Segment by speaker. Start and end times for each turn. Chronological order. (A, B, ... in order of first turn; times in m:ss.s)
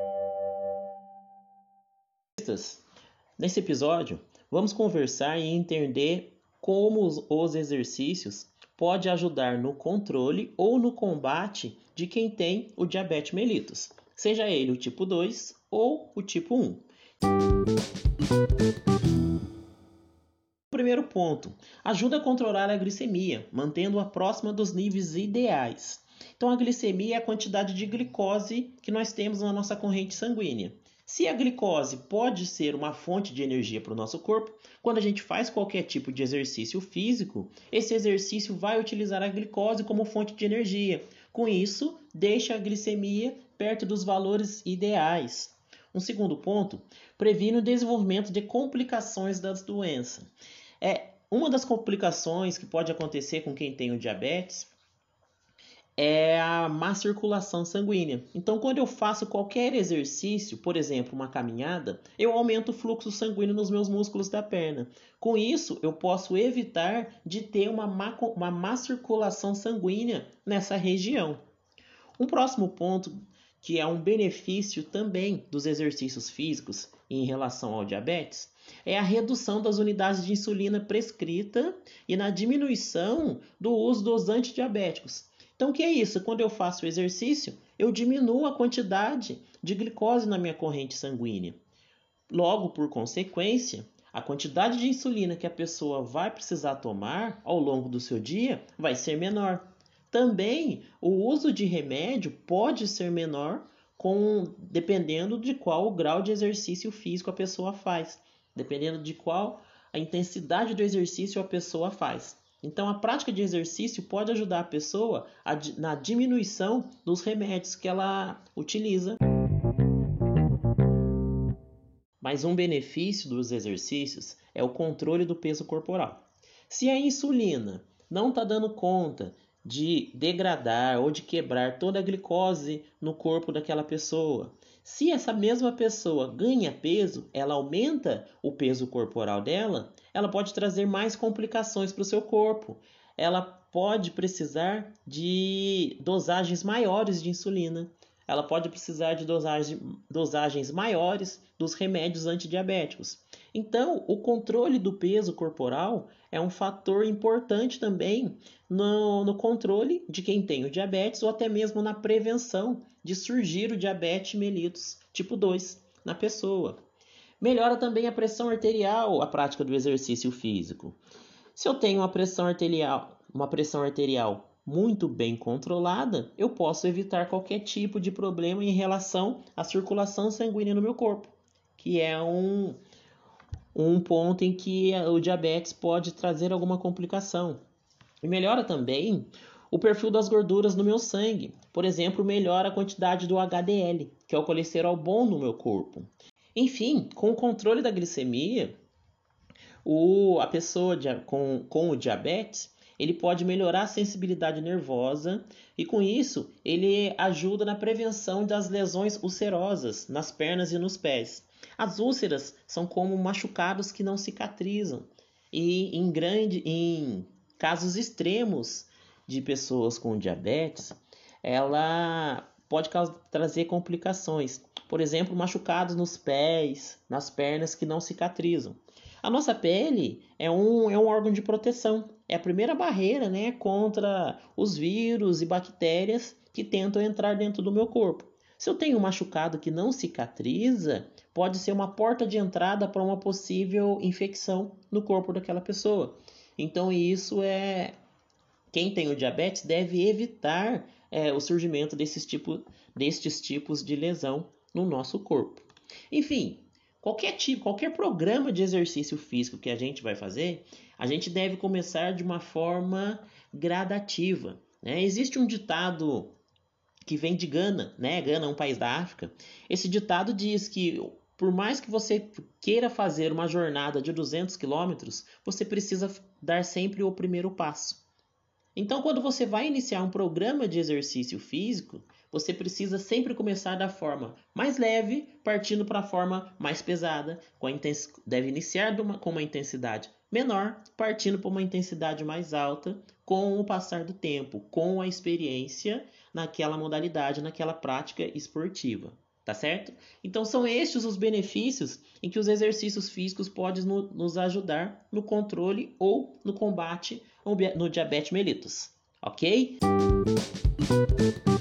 0:02.4-0:02.8 A
0:03.4-0:16.8 A
0:20.7-0:50.3 A
0:50.8-0:54.7 A
0:56.0-1:11.4 A
1:12.2-1:31.6 A
1:32.3-1:59.2 A
2:02.2-2:46.8 A
2:47.4-2:51.0 A
2:51.6-3:02.8 A
3:03.7-3:07.6 A
3:08.2-3:18.8 A
3:19.8-4:08.0 A
4:08.7-4:26.3 A
4:27.1-4:38.0 A
4:38.8-5:09.8 A